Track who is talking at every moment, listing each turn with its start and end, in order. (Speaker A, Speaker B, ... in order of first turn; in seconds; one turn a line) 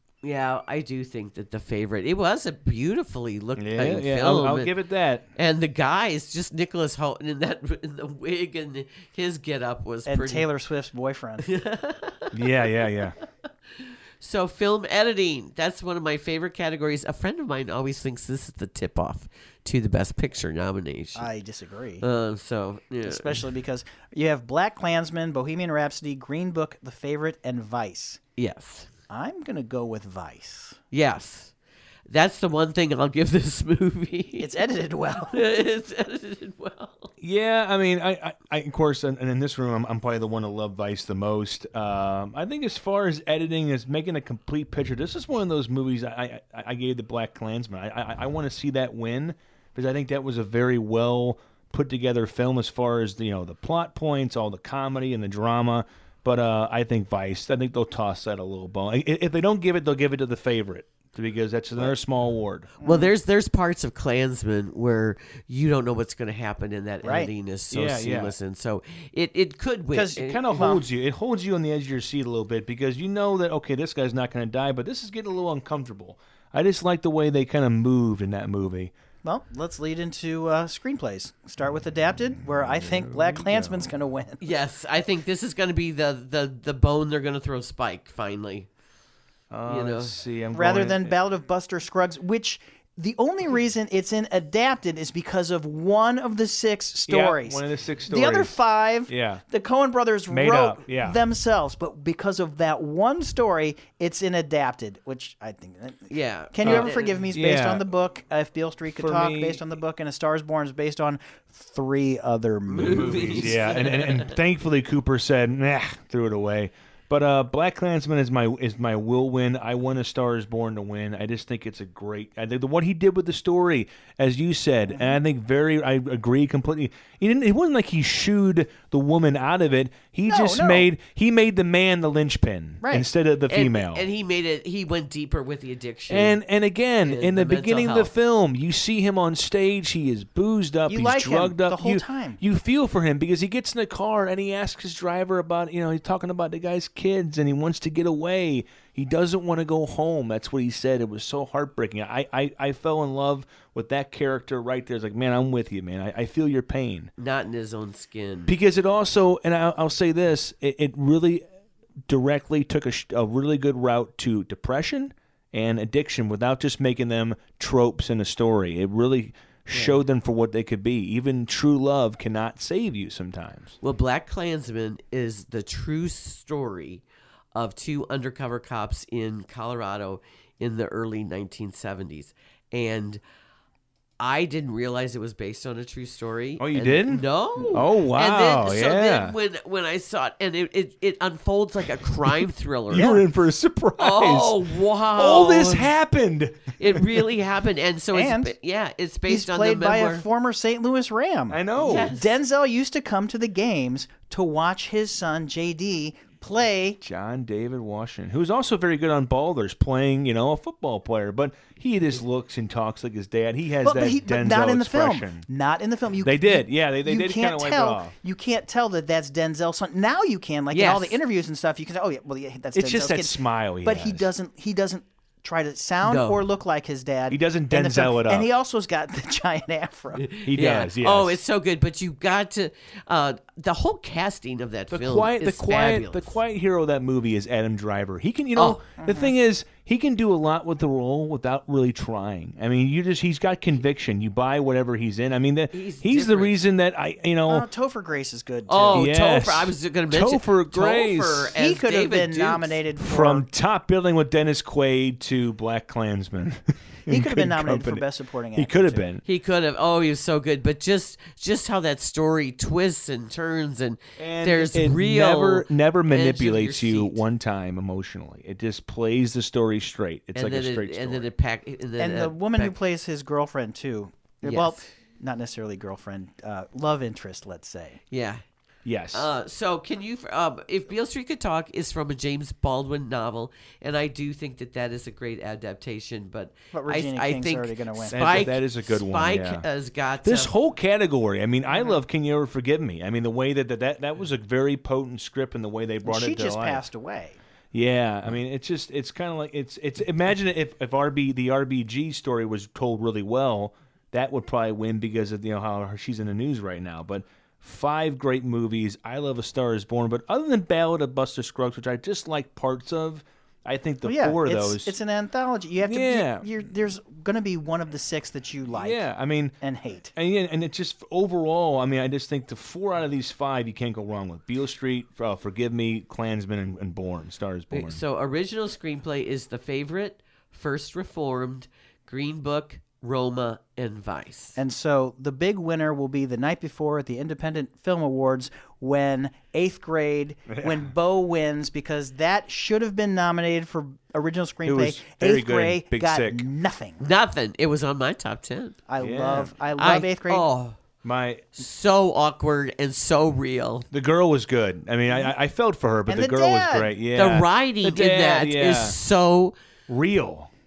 Speaker A: 0.2-4.7
Speaker B: 3.6-5.2
Speaker A: 5.3-10.5
Speaker C: 10.1-11.5
Speaker A: 11.4-21.2
Speaker B: 12.3-13.2
Speaker C: 21.1-22.0
Speaker A: 22.0-23.4
Speaker C: 23.0-28.2
Speaker A: 28.4-28.9
Speaker C: 29.1-30.8
Speaker A: 30.9-31.5
Speaker A: 32.1-34.6
Speaker C: 34.4-35.4
Speaker A: 35.3-37.1
Speaker B: 37.2-62.7
Speaker C: 62.8-63.1
Speaker A: 62.8-70.6
Speaker C: 67.0-67.3
Speaker B: 67.7-68.3
Speaker C: 69.9-70.8
Speaker B: 70.2-78.9
Speaker C: 79.2-84.5
Speaker B: 82.7-83.9
Speaker A: 84.4-88.7
Speaker B: 89.5-91.1
Speaker A: 89.7-90.1
Speaker C: 90.5-113.7
Speaker B: 97.1-98.5
Speaker B: 99.1-99.4
Speaker B: 100.3-101.2
Speaker A: 106.1-107.2
Speaker B: 106.6-107.8
Speaker B: 108.9-109.6
Speaker A: 112.7-114.3
Speaker B: 112.8-134.1
Speaker C: 124.9-125.2
Speaker C: 130.3-130.9
Speaker C: 132.8-133.1
Speaker A: 133.5-136.4
Speaker B: 136.1-157.1
Speaker A: 137.1-138.1
Speaker C: 140.9-142.4
Speaker A: 157.2-158.5
Speaker B: 158.5-161.4
Speaker B: 162.1-173.8
Speaker A: 169.7-170.0
Speaker A: 173.8-183.2
Speaker A: 184.2-193.2
Speaker B: 186.6-189.3
Speaker B: 192.9-197.2
Speaker A: 194.0-195.9
Speaker A: 196.8-200.2
Speaker C: 198.1-198.5
Speaker C: 199.3-207.0
Speaker B: 201.5-202.1
Speaker A: 201.8-202.3
Speaker B: 207.0-215.4
Speaker C: 213.8-230.3
Speaker B: 216.2-218.1
Speaker A: 220.7-221.2
Speaker B: 222.7-224.3
Speaker A: 226.0-226.4
Speaker B: 227.3-228.5
Speaker A: 230.2-236.4
Speaker B: 230.4-231.4
Speaker B: 234.9-247.7
Speaker A: 238.6-238.8
Speaker C: 239.0-239.3
Speaker A: 245.7-246.6
Speaker C: 247.5-249.1
Speaker A: 248.7-252.8
Speaker B: 248.9-251.5
Speaker C: 251.5-253.5
Speaker B: 253.0-259.2
Speaker C: 257.1-259.1
Speaker A: 259.2-267.2
Speaker B: 264.2-271.3
Speaker A: 270.3-272.7
Speaker C: 272.0-278.0
Speaker A: 274.4-274.8
Speaker A: 278.1-278.4
Speaker B: 278.8-279.3
Speaker A: 279.1-290.5
Speaker C: 286.7-288.4
Speaker B: 288.1-289.6
Speaker B: 290.2-296.8
Speaker C: 291.7-292.0
Speaker C: 296.0-297.4
Speaker B: 297.7-314.9
Speaker C: 314.0-319.0
Speaker B: 315.8-316.5
Speaker B: 318.7-319.6
Speaker C: 319.6-320.1
Speaker B: 320.1-328.0
Speaker A: 327.7-334.6
Speaker C: 334.6-347.0
Speaker B: 340.5-340.8
Speaker B: 344.6-346.4
Speaker A: 347.0-348.8
Speaker C: 348.9-350.4
Speaker B: 349.0-349.5
Speaker A: 349.8-350.8
Speaker B: 351.0-351.6
Speaker A: 351.6-353.9
Speaker B: 353.9-358.9
Speaker C: 356.1-356.9
Speaker A: 357.1-359.5
Speaker B: 359.9-360.5